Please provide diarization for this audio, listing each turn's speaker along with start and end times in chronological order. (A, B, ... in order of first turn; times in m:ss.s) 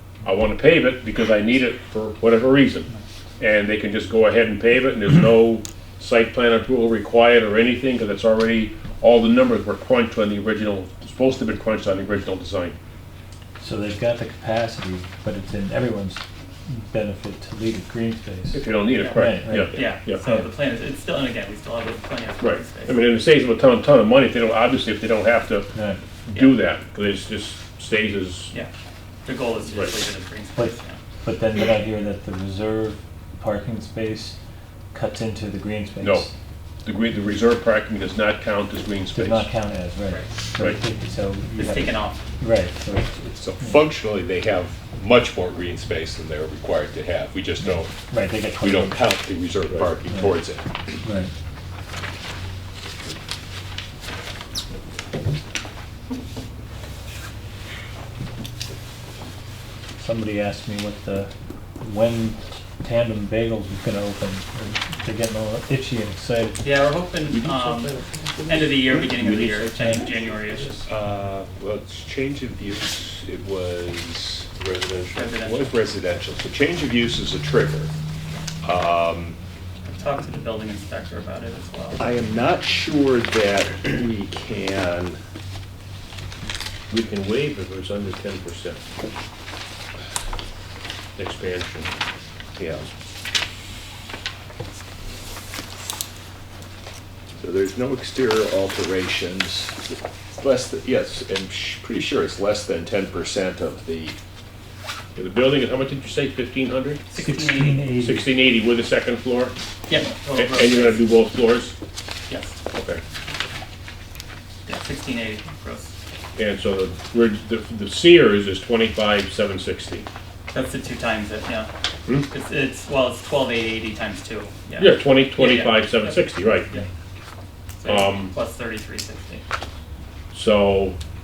0:00.2-0:12.7 A
0:13.6-0:20.5 B
0:18.5-0:20.2 A
0:19.0-0:23.0 C
0:22.4-0:25.7 A
0:25.7-0:26.0 B
0:26.2-0:28.5 A
0:26.3-0:26.6 C
0:29.2-0:31.0 C
0:30.5-0:34.4 B
0:34.9-0:36.3 B
0:36.0-0:36.3 A
0:36.8-0:39.5 A
0:39.1-0:43.9 B
0:41.6-0:42.2 C
0:43.2-0:47.9 D
0:47.7-0:49.1 B
0:48.6-0:51.0 D
0:50.1-0:50.3 B
0:51.0-0:51.3 B
1:00.0-1:06.6 B
1:06.6-1:10.8 C
1:07.3-1:17.9 D
1:09.7-1:10.1 B
1:15.1-1:15.8 C
1:18.6-1:19.4 D
1:19.8-1:22.0 C
1:22.0-1:25.2 D
1:26.9-1:28.8 A
1:31.2-1:31.9 A
1:32.6-1:32.9 D
1:37.4-1:44.2 D
1:45.2-1:47.0 A
1:47.1-1:47.8 C
1:47.2-1:48.3 B
1:48.0-1:49.5 A
1:49.9-1:51.0 C
1:50.3-1:51.7 A
1:52.3-1:52.6 C
1:52.7-1:53.0 A
1:54.6-1:55.9 C
1:56.4-2:00.0 A
2:00.5-2:01.7 C
2:02.2-2:06.9 C
2:04.8-2:06.7 A
2:07.8-2:09.4 C
2:07.8-2:08.3 A
2:10.3-2:11.0 A